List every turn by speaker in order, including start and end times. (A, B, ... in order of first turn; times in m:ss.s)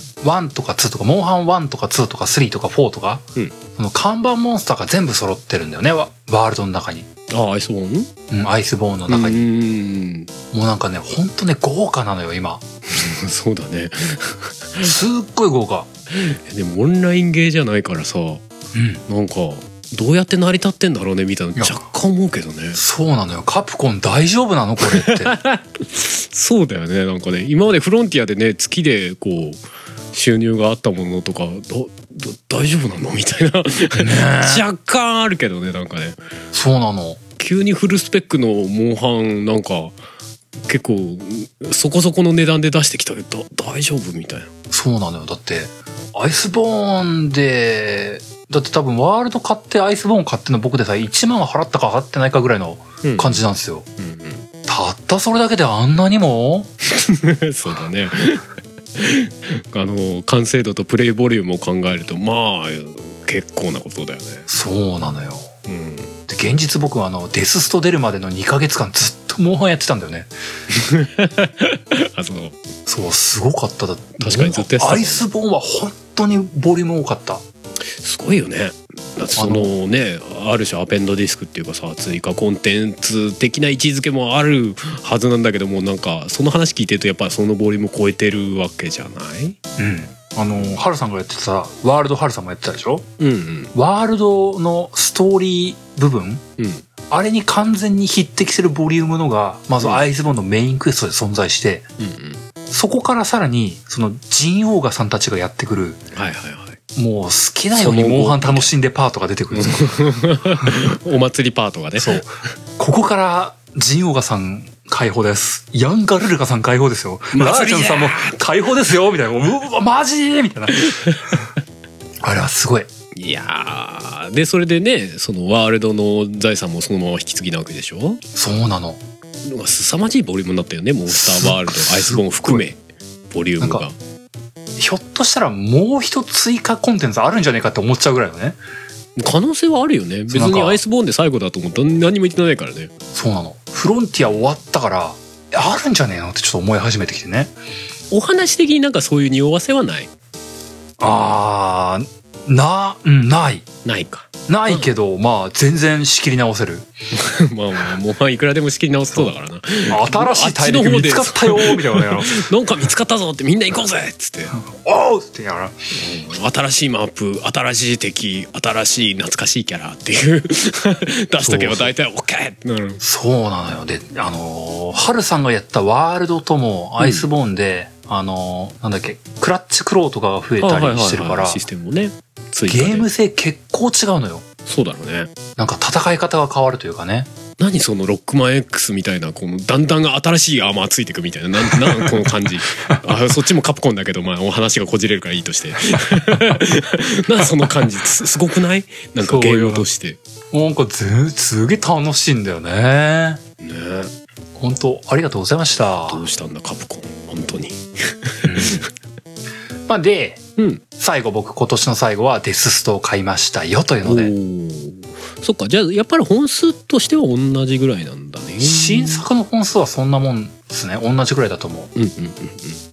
0:00.2-0:07.1 A
0:07.3-0:08.1 B
0:08.3-0:09.4 A
0:09.1-0:10.3 B
0:10.5-0:12.6 A
0:12.9-0:14.9 B
0:14.8-0:15.9 A
0:16.1-0:18.4 B
0:18.7-0:19.0 A
0:19.1-0:22.8 B
0:22.7-0:25.3 A
0:24.8-0:29.6 B
0:30.1-0:36.2 B
0:34.0-0:34.6 A
0:36.5-0:37.2 A
0:37.4-0:40.0 B
0:40.6-0:44.5 B
0:44.7-0:53.8 A
0:53.0-0:53.4 B
0:54.0-0:54.4 B
0:54.7-0:56.7 A
0:56.9-1:04.5 B
1:04.5-1:05.5 A
1:05.6-1:06.2 B
1:06.3-1:10.3 A
1:10.7-1:12.6 B
1:12.9-1:17.4 A
1:14.2-1:15.3 B
1:18.0-1:29.6 B
1:19.4-1:19.7 A
1:29.8-1:33.1 A
1:33.2-1:33.7 B
1:33.7-1:36.4 A
1:36.6-1:36.8 B
1:37.1-1:41.9 A
1:42.0-1:42.4 B
1:42.7-1:46.0 A
1:46.1-1:46.8 B
1:47.0-1:50.0 A
1:47.7-1:48.7 B
1:49.5-1:52.2 B
1:52.0-2:01.1 A
1:57.3-1:58.4 B
2:00.8-2:01.2 B
2:02.2-2:02.9 A
2:03.1-2:08.2 B
2:08.3-2:09.0 A
2:09.4-2:13.9 B
2:11.1-2:12.6 A
2:13.6-2:13.8 A
2:14.8-2:18.6 A
2:19.2-2:22.9 B
2:20.3-2:20.8 A
2:23.1-2:27.5 A
2:28.1-2:30.1 B
2:31.0-2:33.7 A
2:33.8-2:34.9 B
2:34.5-2:36.9 A
2:37.1-2:44.5 B
2:39.9-2:42.5 A
2:44.5-2:45.7 A
2:45.9-2:53.0 B
2:51.4-2:51.9 A
2:53.0-3:01.6 A
2:57.0-2:57.3 B
3:00.6-3:03.1 B
3:02.7-3:04.5 A
3:04.6-3:05.3 B
3:05.6-3:07.3 A
3:07.6-3:20.2 B
3:11.8-3:12.2 A
3:19.2-3:19.8 A
3:20.5-3:23.4 A
3:23.6-3:24.1 B
3:24.6-3:26.2 A
3:26.1-3:28.8 B
3:28.4-3:28.9 A
3:29.9-3:30.4 A
3:30.6-3:30.8 B
3:31.0-3:34.3 A
3:34.0-3:39.2 B
3:38.6-3:41.9 A
3:41.9-3:42.8 B